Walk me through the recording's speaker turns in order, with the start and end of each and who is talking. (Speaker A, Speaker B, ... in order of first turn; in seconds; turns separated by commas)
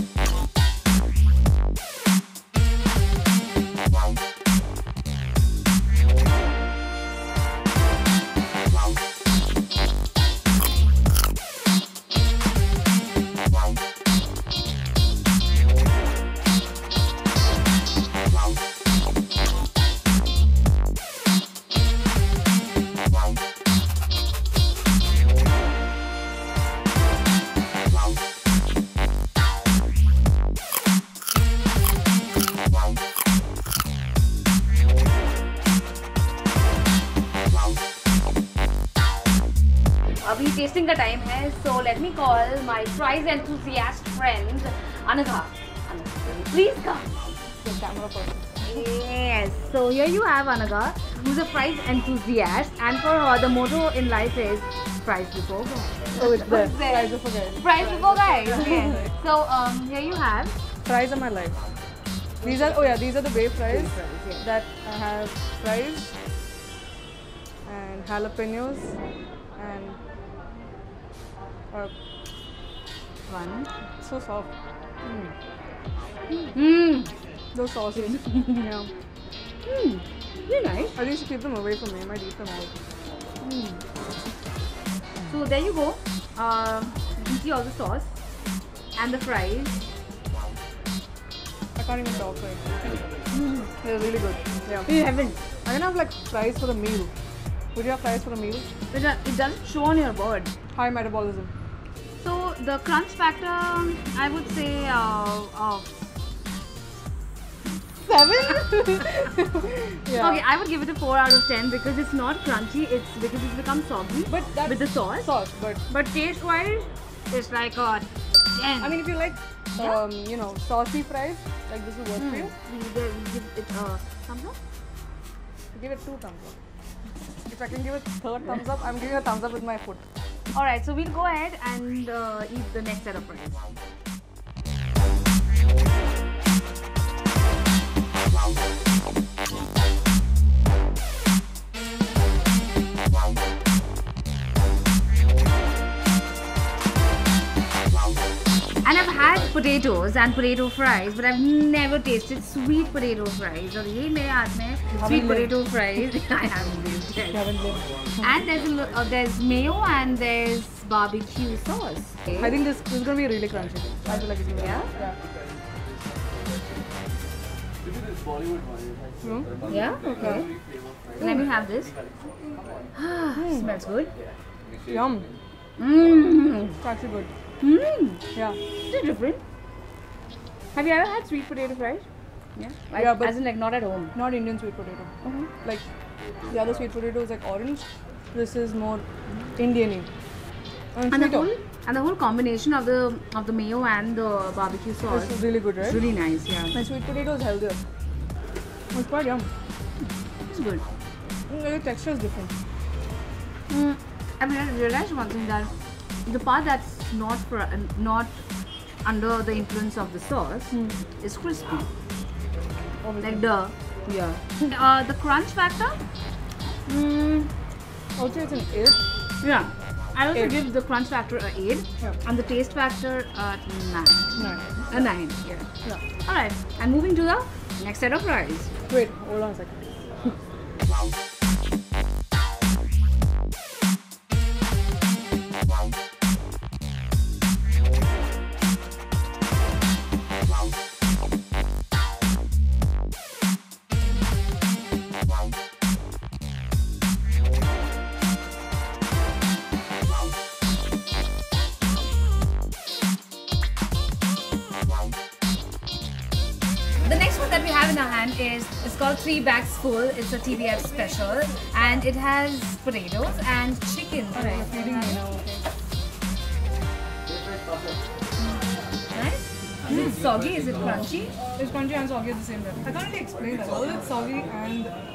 Speaker A: 40.2-47.1, Speaker B: 47.6-48.8, Speaker A: 48.6-60.5, Speaker B: 56.1-57.7, Speaker B: 58.7-59.1, Speaker B: 60.8-61.6, Speaker A: 62.4-63.0, Speaker B: 62.4-66.1, Speaker A: 63.5-64.5, Speaker B: 67.7-69.0, Speaker B: 69.6-70.0, Speaker A: 73.3-73.7, Speaker B: 74.0-74.5, Speaker B: 75.0-75.3, Speaker A: 76.5-77.1, Speaker B: 77.5-78.9, Speaker A: 78.0-78.6, Speaker A: 79.7-81.0, Speaker B: 81.0-82.8, Speaker A: 83.4-83.8, Speaker A: 85.3-88.2, Speaker A: 89.0-89.8, Speaker B: 91.8-92.8, Speaker A: 93.3-93.7, Speaker B: 93.8-94.9, Speaker A: 94.9-95.4, Speaker B: 95.7-97.1, Speaker B: 97.8-98.7, Speaker A: 98.9-100.5, Speaker B: 100.7-101.5, Speaker A: 102.2-106.0, Speaker B: 108.0-110.4, Speaker A: 110.1-115.3, Speaker B: 114.3-115.8, Speaker A: 115.9-119.0, Speaker B: 118.8-122.5, Speaker A: 119.8-120.0, Speaker A: 122.2-124.6, Speaker B: 125.7-126.6, Speaker B: 127.5-130.0, Speaker A: 130.5-133.8, Speaker A: 148.8-157.4, Speaker B: 154.9-155.5, Speaker B: 157.3-158.3, Speaker A: 158.2-162.4, Speaker B: 162.4-165.2, Speaker A: 164.6-164.9, Speaker B: 169.2-170.4, Speaker A: 169.7-170.5, Speaker A: 171.2-171.9, Speaker A: 172.9-174.1, Speaker B: 173.3-173.7, Speaker B: 174.8-175.3, Speaker A: 175.8-176.8, Speaker B: 176.8-177.3, Speaker A: 177.6-178.2, Speaker A: 178.9-179.4, Speaker A: 180.7-184.1, Speaker B: 182.9-183.3, Speaker B: 184.1-185.1, Speaker A: 185.2-185.5, Speaker B: 185.6-185.9, Speaker B: 186.4-190.1, Speaker B: 190.9-191.5, Speaker A: 191.1-196.8, Speaker B: 195.1-196.0, Speaker B: 196.7-197.8, Speaker B: 198.9-199.5, Speaker A: 200.5-200.8, Speaker B: 201.5-202.5, Speaker A: 203.7-205.7, Speaker A: 206.2-208.4, Speaker A: 209.0-211.9, Speaker B: 210.7-211.0, Speaker B: 213.0-213.4, Speaker A: 213.2-216.0, Speaker A: 216.9-217.5, Speaker B: 218.2-219.0, Speaker A: 219.4-225.7, Speaker B: 224.4-224.7, Speaker A: 226.2-228.7, Speaker B: 228.9-229.8, Speaker A: 257.0-265.2, Speaker B: 264.3-265.6, Speaker A: 269.1-271.3, Speaker B: 269.9-270.2, Speaker B: 271.6-274.9